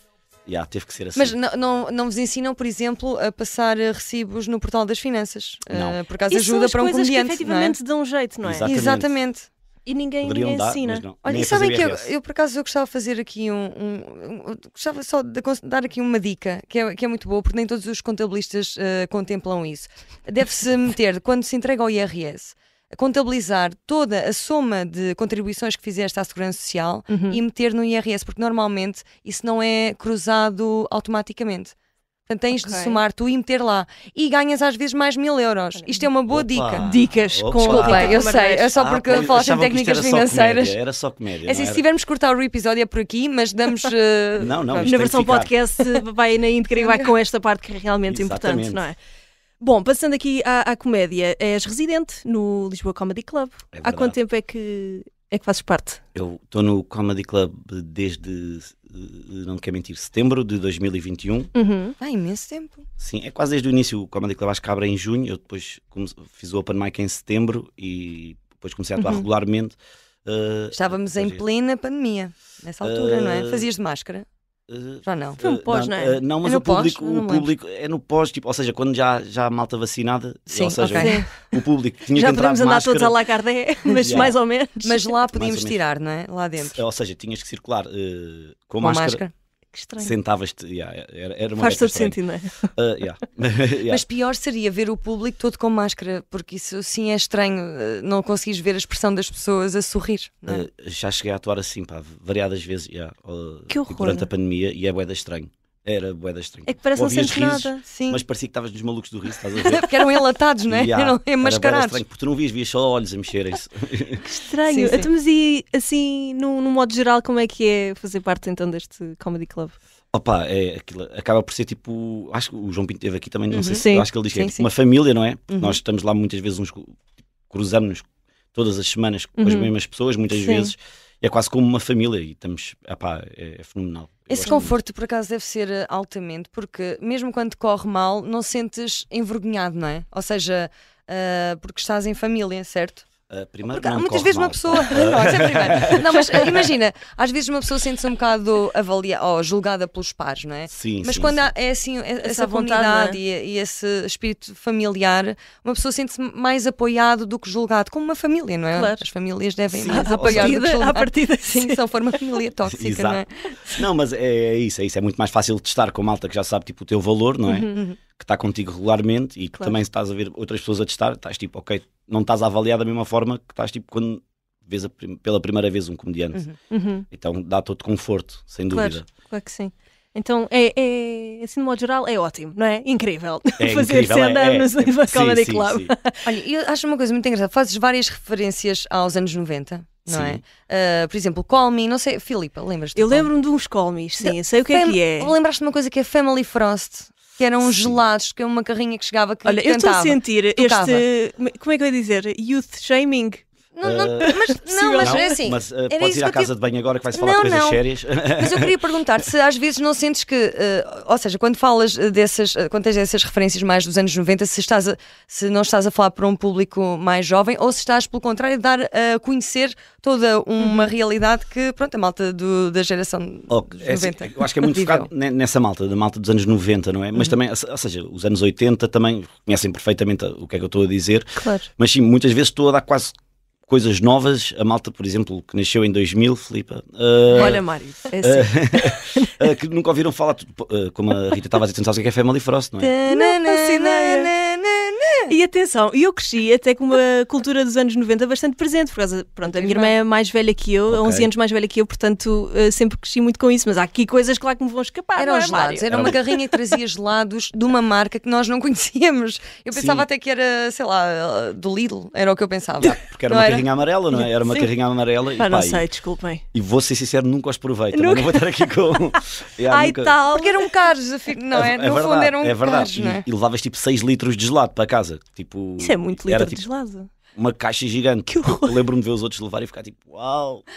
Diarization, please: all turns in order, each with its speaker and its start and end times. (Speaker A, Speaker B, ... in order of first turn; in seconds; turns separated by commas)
Speaker A: 0.5-1.4, Speaker B: 1.1-7.8, Speaker A: 5.7-6.0, Speaker C: 6.3-8.7, Speaker A: 8.4-9.1, Speaker B: 8.6-9.5, Speaker C: 9.8-11.1, Speaker A: 10.2-12.1, Speaker B: 11.2-31.7, Speaker C: 27.1-27.4, Speaker B: 32.3-36.9, Speaker C: 32.6-33.0, Speaker C: 35.8-36.0, Speaker A: 36.3-41.8, Speaker C: 36.8-38.7, Speaker B: 37.6-40.8, Speaker B: 41.4-45.0, Speaker A: 44.4-45.5, Speaker C: 44.8-49.0, Speaker B: 46.8-47.1, Speaker A: 48.1-48.8, Speaker C: 49.6-56.0, Speaker A: 53.7-54.2, Speaker A: 56.1-61.5, Speaker C: 61.5-61.9, Speaker B: 62.0-62.9, Speaker A: 63.0-71.4, Speaker C: 69.0-69.2, Speaker B: 70.7-74.3, Speaker A: 72.8-73.7, Speaker A: 74.7-83.2, Speaker B: 75.0-75.4, Speaker C: 75.4-76.2, Speaker B: 76.4-77.5, Speaker B: 80.5-81.3, Speaker C: 80.9-81.4, Speaker C: 82.1-85.1, Speaker B: 83.9-86.8, Speaker A: 84.0-84.4, Speaker A: 85.3-85.8, Speaker A: 86.6-89.2, Speaker B: 88.8-89.3, Speaker C: 89.7-90.1, Speaker A: 90.0-92.2, Speaker C: 91.6-92.7, Speaker A: 92.7-94.0, Speaker B: 93.9-100.7, Speaker A: 100.5-109.9, Speaker C: 103.7-104.3, Speaker C: 106.7-107.8, Speaker B: 107.9-108.2, Speaker B: 109.6-112.0, Speaker A: 110.7-114.2, Speaker C: 114.2-119.8, Speaker B: 114.7-115.1, Speaker A: 120.1-127.0, Speaker B: 123.5-124.6, Speaker C: 123.7-124.1, Speaker B: 125.5-125.8, Speaker A: 127.5-134.8, Speaker C: 129.4-129.7, Speaker C: 130.3-130.7, Speaker B: 134.3-143.1, Speaker A: 143.3-146.7, Speaker B: 143.7-163.4, Speaker A: 150.7-151.5, Speaker C: 152.2-153.2, Speaker C: 158.7-159.0, Speaker A: 159.7-160.6, Speaker C: 159.9-161.8, Speaker A: 162.7-176.4, Speaker C: 167.5-167.8, Speaker C: 176.7-177.0, Speaker A: 177.1-179.1, Speaker C: 178.7-186.3, Speaker A: 183.6-185.9, Speaker B: 186.2-193.3, Speaker A: 190.1-190.4, Speaker C: 192.9-195.3, Speaker B: 194.2-201.0, Speaker A: 197.6-198.0, Speaker C: 199.4-203.4, Speaker B: 203.7-206.5, Speaker A: 203.8-204.4, Speaker C: 204.2-205.3, Speaker A: 205.0-208.8, Speaker B: 207.1-225.1, Speaker C: 220.6-220.9, Speaker A: 223.5-233.1, Speaker C: 231.3-231.7, Speaker A: 233.7-237.6, Speaker C: 237.3-239.3, Speaker A: 238.2-242.9, Speaker C: 242.8-244.3, Speaker B: 243.1-245.3, Speaker C: 245.3-256.4, Speaker B: 249.4-249.9, Speaker A: 250.9-251.3, Speaker B: 255.2-263.7, Speaker A: 259.7-260.1, Speaker A: 262.8-265.9, Speaker C: 265.4-266.4, Speaker A: 266.5-270.2, Speaker C: 267.9-270.7, Speaker B: 270.3-273.2, Speaker A: 271.5-276.6, Speaker C: 275.8-277.1, Speaker A: 277.3-280.6, Speaker C: 278.3-278.8